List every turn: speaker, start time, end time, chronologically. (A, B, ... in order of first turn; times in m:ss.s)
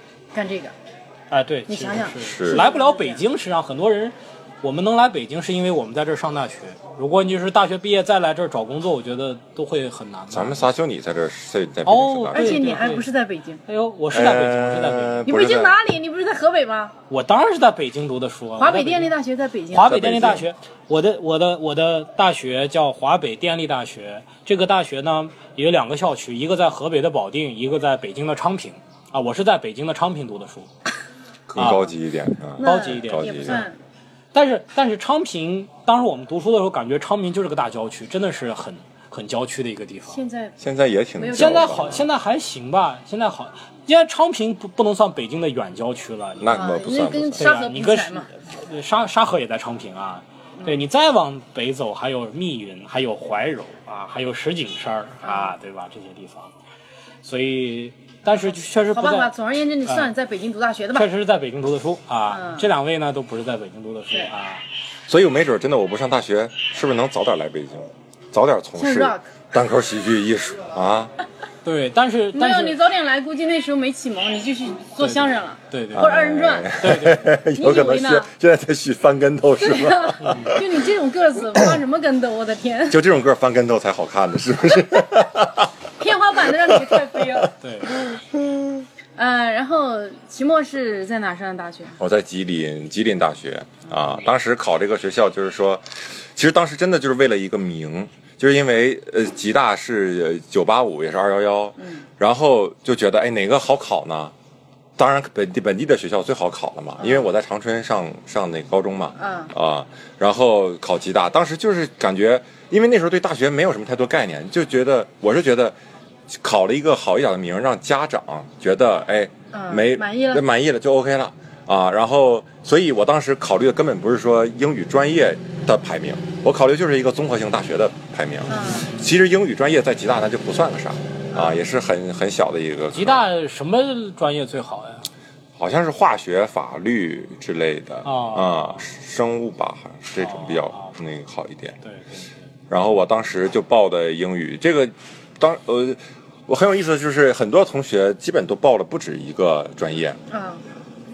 0:00.3-0:00.7 A
0:01.3-0:10.7 B
0:01.7-0:03.2 A
0:02.2-0:02.6 C
0:10.3-0:12.8 C
0:11.8-0:13.1 B
0:12.3-0:13.6 A
0:13.6-0:15.3 B
0:14.1-0:15.8 C
0:15.2-0:16.9 A
0:17.1-0:19.2 B
0:18.6-0:20.0 A
0:19.7-0:30.7 B
0:19.8-0:20.5 C
0:31.5-0:33.6 C
0:31.6-0:31.9 B
0:32.6-0:33.8 A
0:32.6-0:33.7 B
0:34.3-0:40.2 B
0:40.1-0:40.6 A
0:40.6-0:42.0 C
0:41.2-0:42.0 A
0:41.3-0:46.7 B
0:46.4-0:47.5 C
0:46.5-0:48.3 A
0:47.4-0:56.5 B
0:50.6-0:50.8 A
0:55.2-0:55.6 A
0:57.2-0:59.3 B
0:58.4-1:01.1 A
1:00.9-1:04.6 B
1:02.3-1:02.7 A
1:05.1-1:11.1 C
1:08.8-1:09.3 A
1:11.6-1:12.8 B
1:12.3-1:16.8 A
1:15.0-1:16.1 B
1:15.9-1:20.6 C
1:16.8-1:17.4 B
1:17.6-1:18.3 A
1:19.6-1:23.0 A
1:20.2-1:20.6 B
1:22.9-1:25.7 C
1:26.0-1:27.5 A
1:26.7-1:27.4 C
1:27.6-1:27.9 B
1:28.0-1:28.8 C
1:29.2-1:32.0 A
1:32.0-1:44.3 C
1:41.8-1:42.1 A
1:45.0-1:55.7 C
1:47.0-1:47.3 A
1:49.2-1:49.5 A
1:56.3-2:13.2 C
1:59.5-2:00.4 A
2:08.5-2:08.9 A
2:11.3-2:11.6 A
2:12.9-2:15.1 B
2:15.6-2:21.8 C
2:18.0-2:18.8 B
2:20.2-2:20.9 B
2:21.8-2:22.3 B
2:22.7-2:30.2 C
2:30.3-2:30.6 A